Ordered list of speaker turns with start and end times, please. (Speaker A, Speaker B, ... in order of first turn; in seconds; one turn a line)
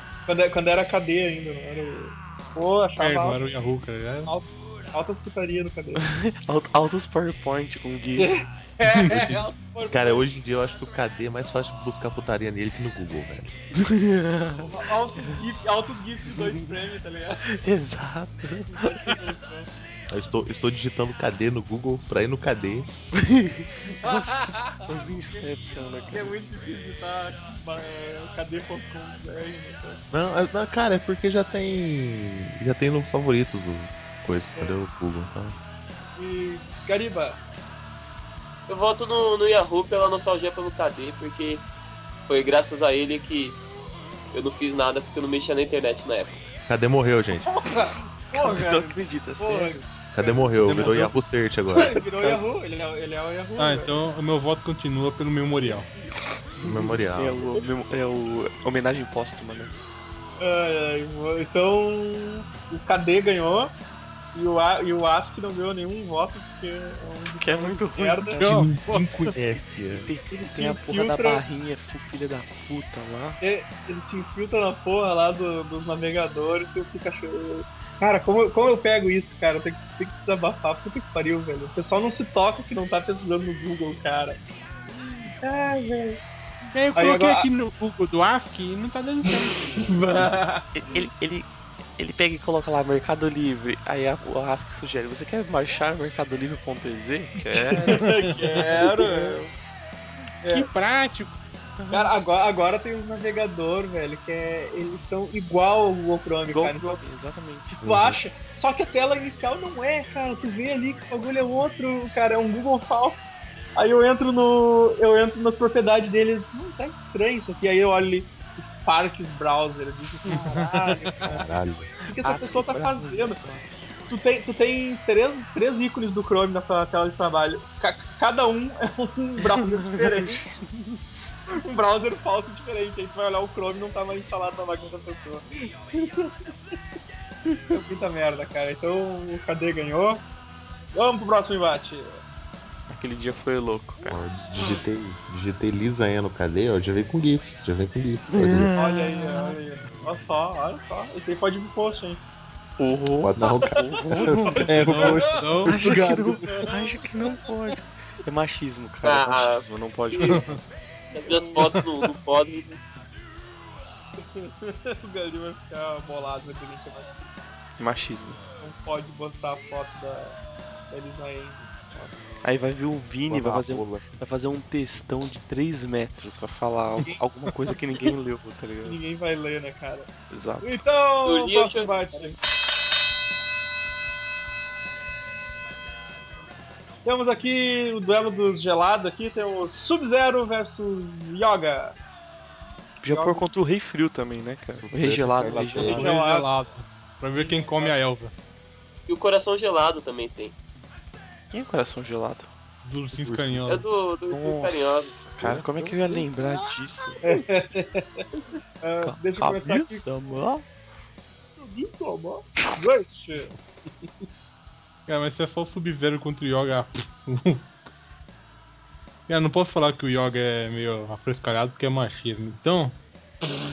Speaker A: 0.3-3.6
Speaker B: 3.0-4.3
Speaker A: 4.2-6.1
Speaker C: 6.0-8.3
Speaker A: 8.2-10.3
Speaker B: 8.9-9.4
Speaker D: 9.1-9.4
Speaker D: 9.9-13.5
Speaker C: 13.8-14.7
Speaker A: 14.6-17.4
Speaker C: 17.5-18.9
Speaker A: 18.7-19.7
Speaker D: 20.1-22.9
Speaker C: 23.1-26.5
Speaker A: 24.0-24.9
Speaker A: 26.1-30.1
Speaker D: 30.1-35.5
Speaker A: 36.2-37.4
Speaker E: 38.7-41.6
Speaker E: 42.3-43.6
Speaker E: 44.3-46.5
Speaker D: 46.7-47.5
Speaker A: 47.4-50.9
Speaker C: 48.3-49.8
Speaker D: 50.1-51.9
Speaker B: 50.7-51.0
Speaker A: 51.7-54.0
Speaker B: 53.6-55.9
Speaker A: 55.5-56.1
Speaker D: 56.6-57.6
Speaker C: 56.6-59.7
Speaker A: 60.4-63.7
Speaker A: 64.3-68.4
Speaker C: 67.4-68.4
Speaker B: 68.4-69.3
Speaker D: 68.4-70.1
Speaker C: 69.9-73.4
Speaker A: 70.3-71.4
Speaker A: 73.4-86.2
Speaker B: 86.7-90.2
Speaker A: 86.9-87.5
Speaker A: 89.3-90.7
Speaker C: 90.7-98.0
Speaker A: 97.6-99.5
Speaker B: 97.9-99.3
Speaker A: 100.4-100.7
Speaker B: 100.5-101.3
Speaker C: 101.8-102.1
Speaker A: 101.9-107.0
Speaker C: 106.5-107.8
Speaker A: 107.8-121.5
Speaker D: 107.8-108.2
Speaker B: 120.3-121.2
Speaker D: 121.3-121.9
Speaker A: 122.0-123.4
Speaker C: 122.2-123.7
Speaker A: 124.1-130.6
Speaker C: 129.5-131.0
Speaker A: 131.5-136.4
Speaker A: 137.7-140.2
Speaker A: 140.9-142.2
Speaker C: 142.9-144.0
Speaker D: 144.0-148.7
Speaker C: 148.3-149.6
Speaker A: 148.8-152.2
Speaker C: 152.8-155.1
Speaker D: 153.2-156.4
Speaker B: 154.6-155.8
Speaker A: 154.8-155.8
Speaker C: 155.6-160.5
Speaker A: 156.4-157.1
Speaker E: 159.0-159.7
Speaker B: 160.2-160.6
Speaker E: 161.1-162.8
Speaker A: 161.2-161.8
Speaker A: 164.2-167.3
Speaker C: 167.8-168.4
Speaker A: 168.6-170.4
Speaker A: 170.9-172.1
Speaker C: 172.4-179.0
Speaker D: 173.3-174.1
Speaker A: 178.8-180.1
Speaker C: 180.3-180.8
Speaker A: 180.6-182.4
Speaker E: 181.2-182.2
Speaker A: 187.0-191.9
Speaker C: 193.0-196.1
Speaker A: 193.1-193.4
Speaker D: 194.8-196.1
Speaker B: 195.8-198.3
Speaker A: 195.8-196.5
Speaker A: 197.3-197.9
Speaker E: 199.1-200.5
Speaker C: 201.5-202.5
Speaker B: 202.8-203.9
Speaker D: 203.2-203.8
Speaker E: 203.7-205.2
Speaker C: 204.3-207.2
Speaker D: 205.4-206.2
Speaker A: 207.2-208.2
Speaker A: 208.8-210.4
Speaker C: 209.0-210.6
Speaker A: 211.6-213.5
Speaker B: 215.1-217.7
Speaker B: 219.3-223.0